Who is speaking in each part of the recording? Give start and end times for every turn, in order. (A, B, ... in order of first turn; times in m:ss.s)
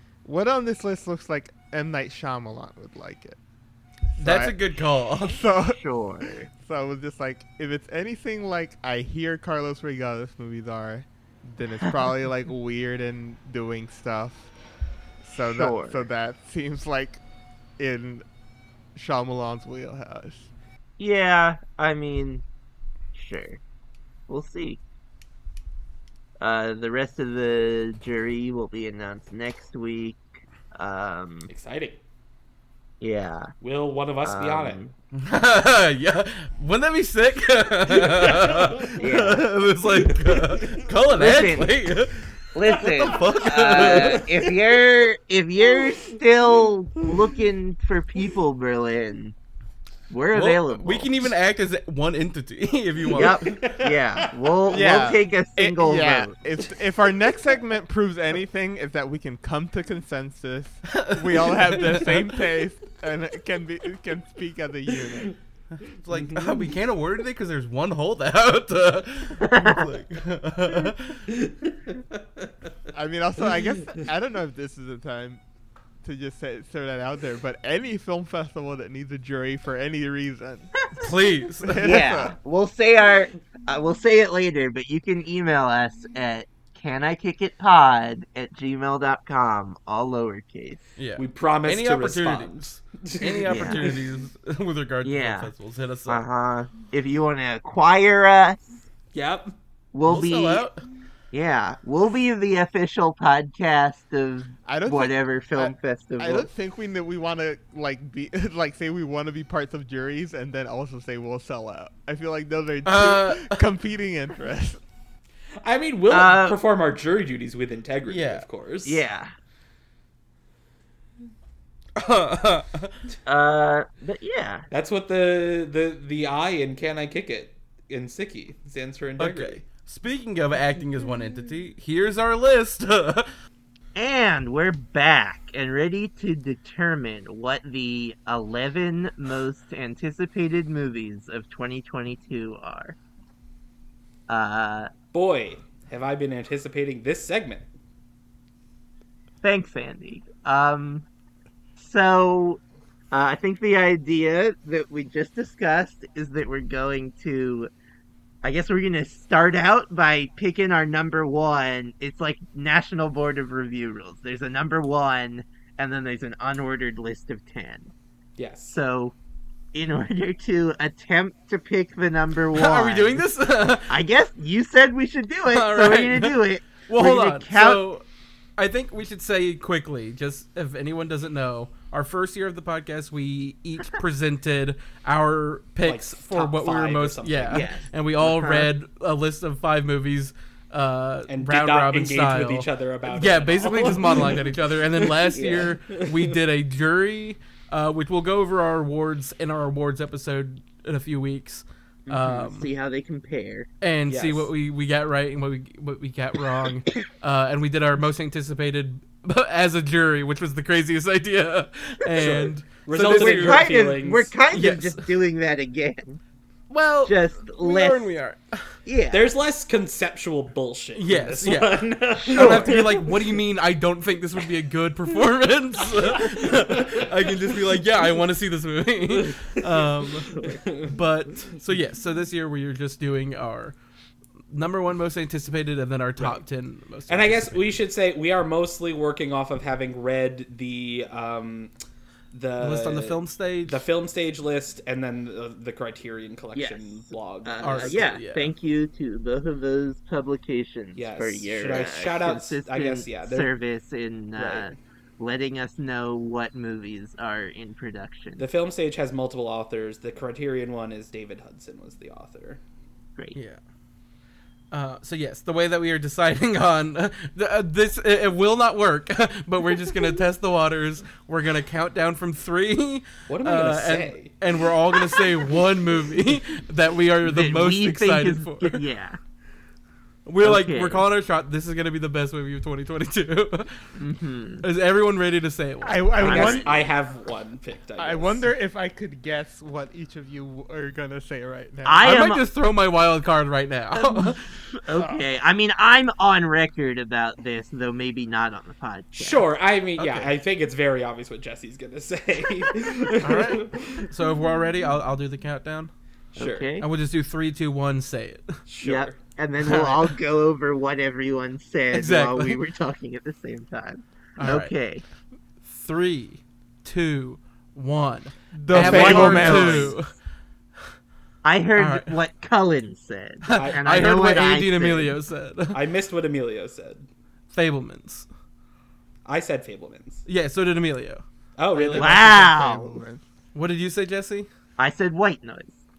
0:00.2-0:03.4 A
0:04.1-0:04.6 A
0:04.2-0:05.4 B
0:05.2-0:14.5 A
0:05.7-0:06.5 C
0:15.2-0:17.2 A
0:15.4-0:16.0 C
0:17.8-0:18.2 A
0:18.9-0:20.5 A
0:21.0-0:22.4 C
0:23.1-0:23.6 C
0:24.3-0:24.8 C
0:26.4-0:30.2 C
0:30.7-0:31.5 C
0:31.5-0:32.0 D
0:33.0-0:33.5 C
0:33.6-0:34.8 D
0:34.2-0:34.9 C
0:35.1-0:44.3 B
0:37.9-0:39.0 D
0:39.0-0:39.5 C
0:39.8-0:40.8 D
0:41.1-0:41.8 C
0:42.5-0:49.3 C
0:42.9-0:44.7 D
0:45.7-0:46.2 D
0:50.1-0:51.2 C
0:50.3-0:53.6 B
0:53.0-0:54.6 D
0:53.1-0:56.3 C
0:54.7-1:05.3 A
1:00.9-1:02.4 B
1:05.8-1:11.3 B
1:06.1-1:06.7 D
1:09.4-1:09.9 C
1:11.3-1:12.5 D
1:12.9-1:15.4 A
1:16.0-1:20.8 A
1:21.0-1:21.9 B
1:21.6-1:22.4 A
1:21.8-1:30.8 C
1:31.0-1:36.2 B
1:31.2-1:34.0 D
1:33.5-1:33.8 C
1:35.0-1:35.5 C
1:36.1-1:38.8 C
1:39.1-1:39.5 D
1:39.9-1:40.6 C
1:40.1-1:40.8 B
1:41.3-1:46.5 C
1:44.6-1:54.8 A
1:52.8-1:53.6 B
1:55.6-1:59.0 D
1:56.1-1:56.6 C
1:58.1-1:58.4 B
1:58.8-1:59.3 C
2:02.0-2:02.9 B
2:03.2-2:04.6 C
2:04.7-2:09.6 D
2:09.2-2:13.3 B
2:13.9-2:23.0 C
2:24.3-2:24.9 C
2:25.1-2:27.7 D
2:29.4-2:31.0 C
2:31.8-2:32.6 C
2:33.1-2:37.7 C
2:38.4-2:47.9 C
2:48.4-2:48.8 D
2:48.7-2:49.1 C
2:49.7-2:53.2 C
2:52.5-2:54.0 B
2:53.9-2:57.8 C
2:55.5-2:58.0 B
2:58.6-3:22.7 B
3:05.8-3:07.7 D
3:07.5-3:08.7 C
3:11.3-3:16.4 D
3:15.3-3:15.7 C
3:22.1-3:23.7 C
3:23.8-3:33.8 B
3:24.1-3:24.5 D
3:32.1-3:34.3 D
3:33.0-3:36.2 C
3:34.5-3:35.0 B
3:36.7-3:38.6 B
3:37.0-3:38.1 C
3:38.8-3:39.3 C
3:39.1-3:43.3 D
3:40.9-3:53.7 B
3:42.3-3:42.9 C
3:45.8-3:47.8 D
3:49.1-3:51.0 D
3:54.5-3:57.8 B
3:57.1-4:01.7 D
4:02.3-4:08.0 D
4:02.6-4:03.8 B
4:06.5-4:18.4 C
4:07.6-4:08.5 B
4:11.0-4:13.5 D
4:14.4-4:14.8 D
4:18.4-4:22.6 D
4:23.3-4:23.6 B
4:24.7-4:38.8 B
4:33.3-4:34.4 D
4:35.0-4:35.4 D
4:37.2-4:39.2 C
4:40.2-4:43.8 B
4:40.4-4:41.0 C
4:44.0-4:44.6 C
4:44.6-4:46.5 B
4:45.8-4:46.9 A
4:46.2-4:48.4 D
4:46.3-4:46.6 C
4:48.0-4:52.1 A
4:51.8-4:52.4 C
4:52.0-4:54.4 B
4:53.9-4:59.4 C
4:55.0-4:55.2 A
4:59.1-5:04.1 D
5:00.0-5:00.3 B
5:03.2-5:05.9 B
5:06.3-5:06.8 C
5:06.4-5:06.7 D
5:06.8-5:08.5 B
5:08.7-5:09.2 D
5:08.8-5:15.0 C
5:09.6-5:10.1 B
5:11.9-5:12.6 B
5:14.4-5:14.7 B
5:15.6-5:20.1 B
5:18.5-5:19.9 A
5:18.7-5:20.0 C
5:21.4-5:25.1 C
5:21.8-5:22.1 B
5:23.5-5:25.8 B
5:23.5-5:23.8 D
5:25.7-5:27.1 D
5:27.5-5:28.3 B
5:29.2-5:30.2 D
5:30.2-5:31.2 B
5:31.6-5:32.2 D
5:31.8-5:33.2 A
5:31.9-5:33.0 C
5:33.5-5:34.5 B
5:34.8-5:35.8 C